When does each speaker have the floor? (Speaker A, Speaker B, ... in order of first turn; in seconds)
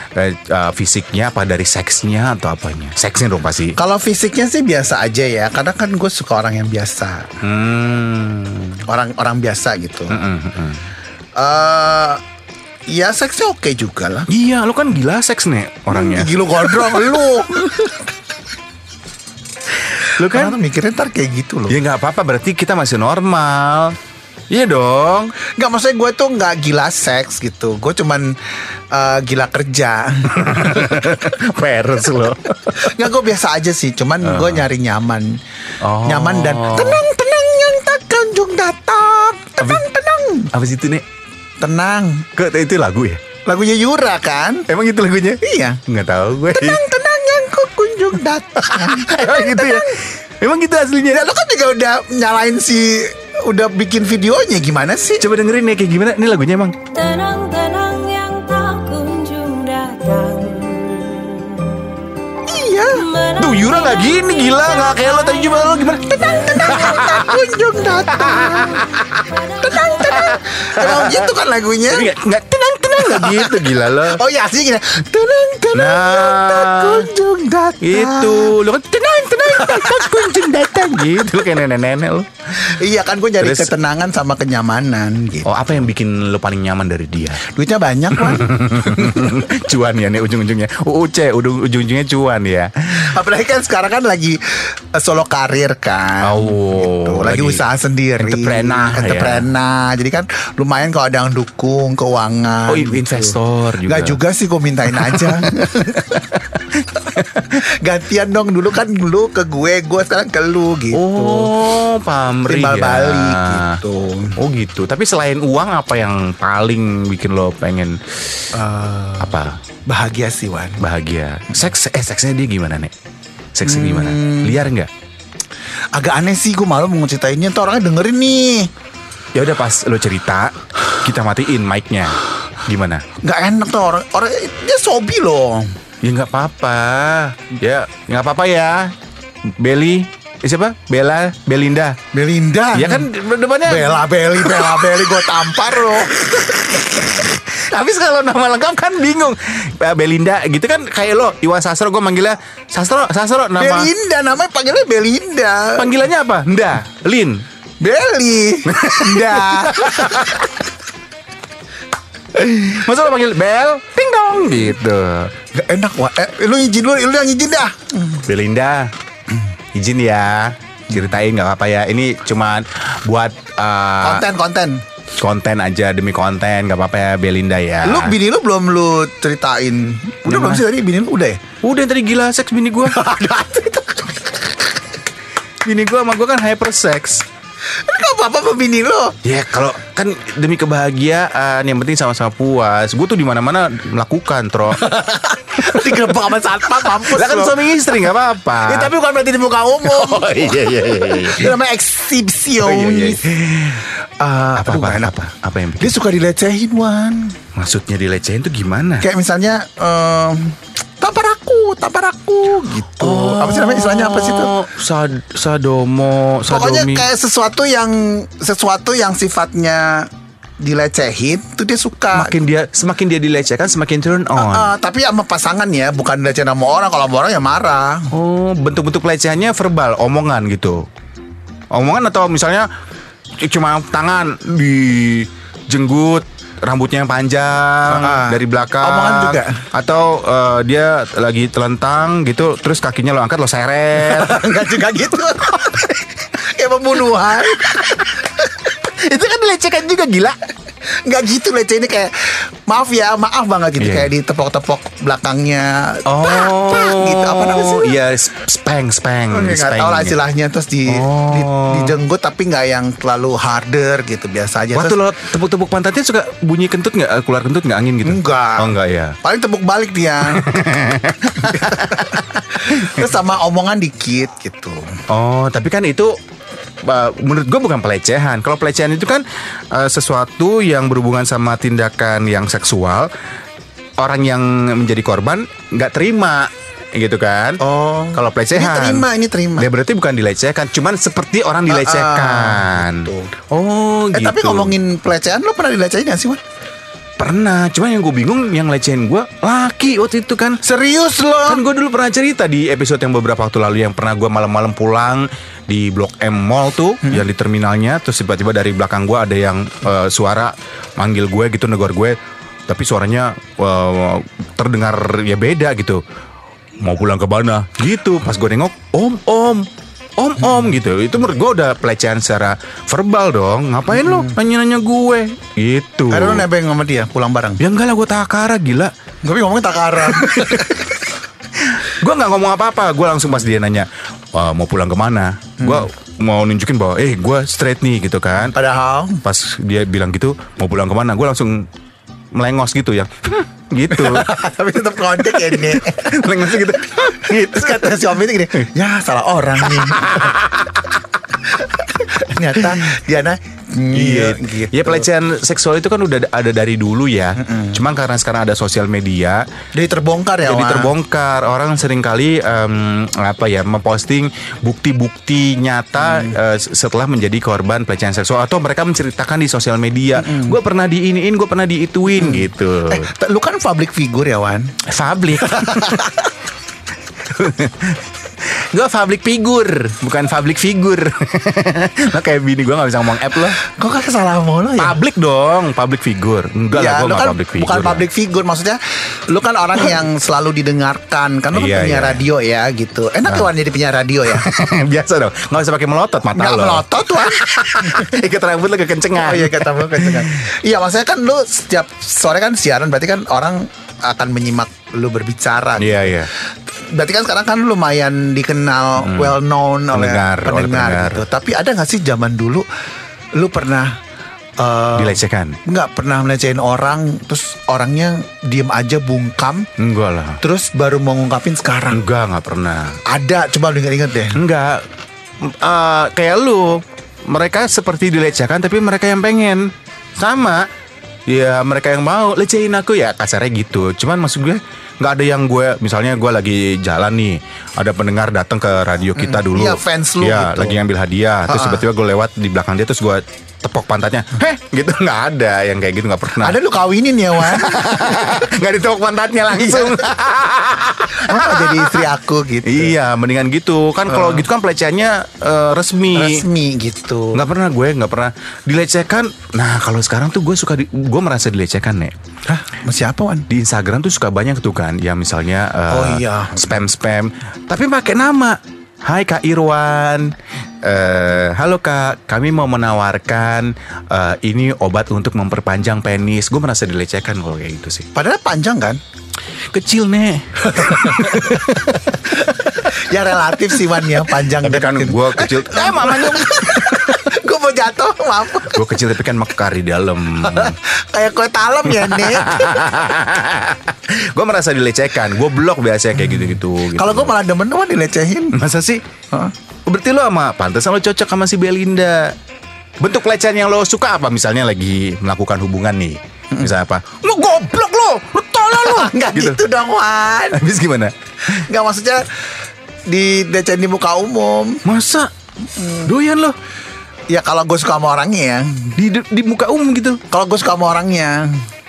Speaker A: 0.1-3.8, 7.4-8.8, 10.1-10.9, 14.3-17.7, 19.9-20.6, 21.7-24.0, 24.5-25.4, 30.3-33.1, 34.2-34.7, 35.8-37.0, 39.6-39.9, 40.5-41.0, 42.4-43.2, 44.7-46.8, 48.6-51.3, 55.2-57.0, 63.4-67.5, 68.1-71.3, 71.9-74.2, 75.7-77.1, 77.8-82.3, 83.4-83.7, 85.5-87.4, 88.2-93.1, 96.2-97.6, 98.2-99.5, 102.7-104.2, 104.9-105.7, 107.0-107.4, 110.9-113.8, 114.4-118.5, 119.2-119.6, 120.8-122.9, 123.5-124.9, 129.3-133.1, 136.0-138.9, 139.6-142.0, 142.7-153.9, 155.8-157.4, 158.7-160.6, 162.3-165.3, 168.2-168.9, 169.7-174.2, 175.2-178.2, 180.3-180.6, 181.6-183.0, 185.6-187.2, 189.2-194.8, 195.6-196.1, 196.8-198.9, 199.8-201.6, 202.6-203.8, 204.6-205.9, 207.6-209.1, 213.0-217.1, 222.1-224.7, 228.1-230.9, 231.7-232.7, 233.4-244.5, 245.5-245.9, 247.5-250.4, 253.8-254.1, 256.1-260.2, 260.9-261.9, 264.7-269.2, 270.3-273.1, 275.1-276.1, 276.8-283.1, 284.0-287.6, 288.1-294.8, 297.2-300.6, 301.5-312.2, 312.7-316.0, 316.8-326.5, 327.6-328.9, 330.0-330.9, 331.6-338.6, 339.2-341.7, 342.3-344.3, 345.2-348.6, 349.6-350.8, 353.9-359.4, 360.4-373.1, 374.9-376.1, 377.2-383.6, 384.8-388.1, 391.5-392.2, 394.3-400.4, 405.8-406.3, 409.0-409.4, 409.9-411.2, 414.9-415.6, 419.8-420.4, 421.9-423.0, 424.3-424.9, 425.4-430.7, 431.3-446.6, 447.4-452.1, 452.6-456.4, 457.3-462.1, 463.5-478.1, 479.7-482.8, 483.9-487.2, 488.7-490.8, 491.9-497.4, 498.5-499.0, 499.9-502.4, 503.0-509.6, 510.5-511.1, 514.9-515.3, 516.0-516.6, 519.0-520.2
Speaker B: 3.8-7.3, 8.9-10.2, 11.4-12.2, 12.9-14.3, 15.9-17.9, 20.2-21.8, 25.6-28.3, 28.9-30.4, 32.8-35.4, 36.0-40.5, 41.6-42.3, 43.5-44.7, 45.4-45.8, 46.5-50.0, 51.1-55.2, 62.5-63.2, 66.1-68.8, 69.5-72.1, 73.0-78.6, 79.5-80.4, 82.6-85.7, 87.4-89.2, 93.0-106.2, 107.8-111.5, 112.5-114.4, 118.5-120.8, 123.7-124.6, 125.9-128.7, 133.2-135.7, 142.1-143.1, 143.7-146.2, 153.6-155.9, 157.8-160.3, 165.5-168.3, 174.0-174.8, 177.8-181.4, 182.9-184.5, 187.8-189.2, 194.7-197.6, 198.6-205.1, 205.8-207.3, 209.0-214.5, 216.5-220.1, 220.6-222.4, 224.4-228.1, 237.9-239.6, 244.0-248.0, 251.0-258.0, 259.3-265.0, 268.0-270.4, 271.4-274.9, 287.6-289.7, 291.7-293.3, 294.1-296.4, 300.6-301.6, 323.9-324.3, 326.1-327.6, 329.2-331.0, 335.6-335.9, 338.4-339.2, 343.9-350.4, 351.6-355.1, 357.4-357.8, 359.8-360.9, 366.0-366.3, 370.2-370.6, 372.2-374.7, 375.5-376.2, 383.6-385.0, 386.7-394.5, 396.3-398.1, 399.2-412.6, 413.4-414.0, 414.6-419.7, 420.4-422.0, 423.1-424.4, 439.2-440.8, 441.5-441.8, 446.4-447.8, 449.6-450.1, 451.2-453.0, 454.1-454.5, 456.1-457.4, 462.5-463.5, 465.9-466.6, 478.1-479.0, 480.7-481.6, 482.4-488.9, 490.5-492.8, 496.2-498.6, 508.7-510.6, 511.5-512.3, 513.1-514.8, 515.7-516.1, 517.3-518.9, 520.3-521.6
Speaker C: 57.0-61.8